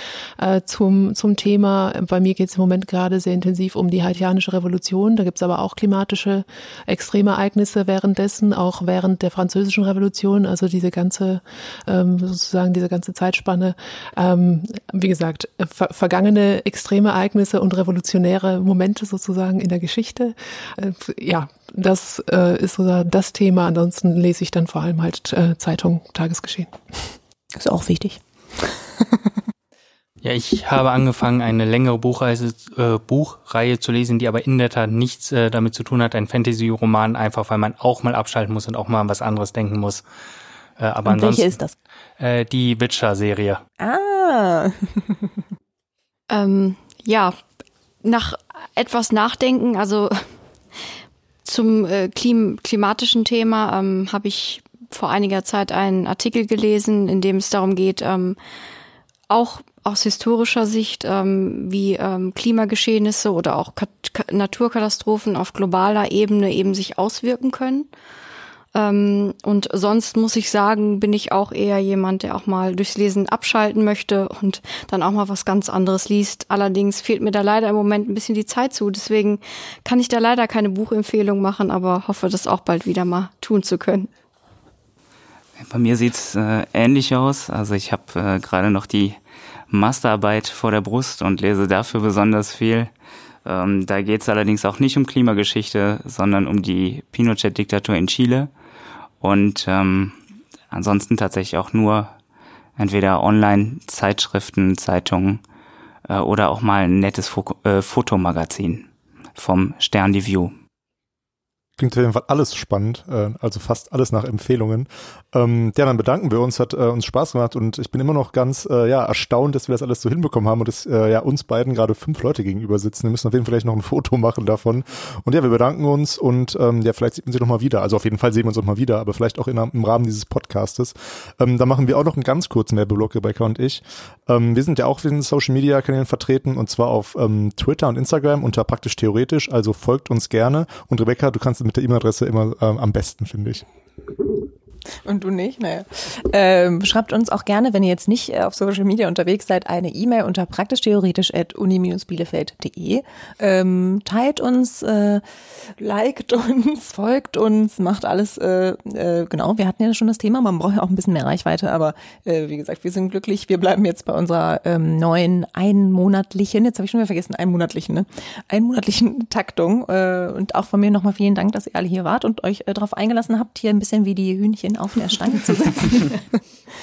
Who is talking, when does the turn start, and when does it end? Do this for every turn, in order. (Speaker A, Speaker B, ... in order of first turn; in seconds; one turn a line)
Speaker A: 0.4-26.8
Speaker B: 27.5-28.8
Speaker C: 30.2-40.0
Speaker C: 40.8-41.6
Speaker B: 41.0-41.8
Speaker C: 42.2-43.6
Speaker B: 43.8-45.1
Speaker D: 46.3-47.4
Speaker D: 48.0-50.3
Speaker D: 51.5-58.4
Speaker D: 59.3-67.9
Speaker D: 68.7-84.1
Speaker E: 85.6-89.2
Speaker E: 89.7-92.9
Speaker E: 93.5-98.5
Speaker E: 99.2-100.2
Speaker E: 100.7-102.1
Speaker E: 102.8-105.4
Speaker E: 106.1-110.5
Speaker F: 111.8-143.7
Speaker B: 145.1-176.2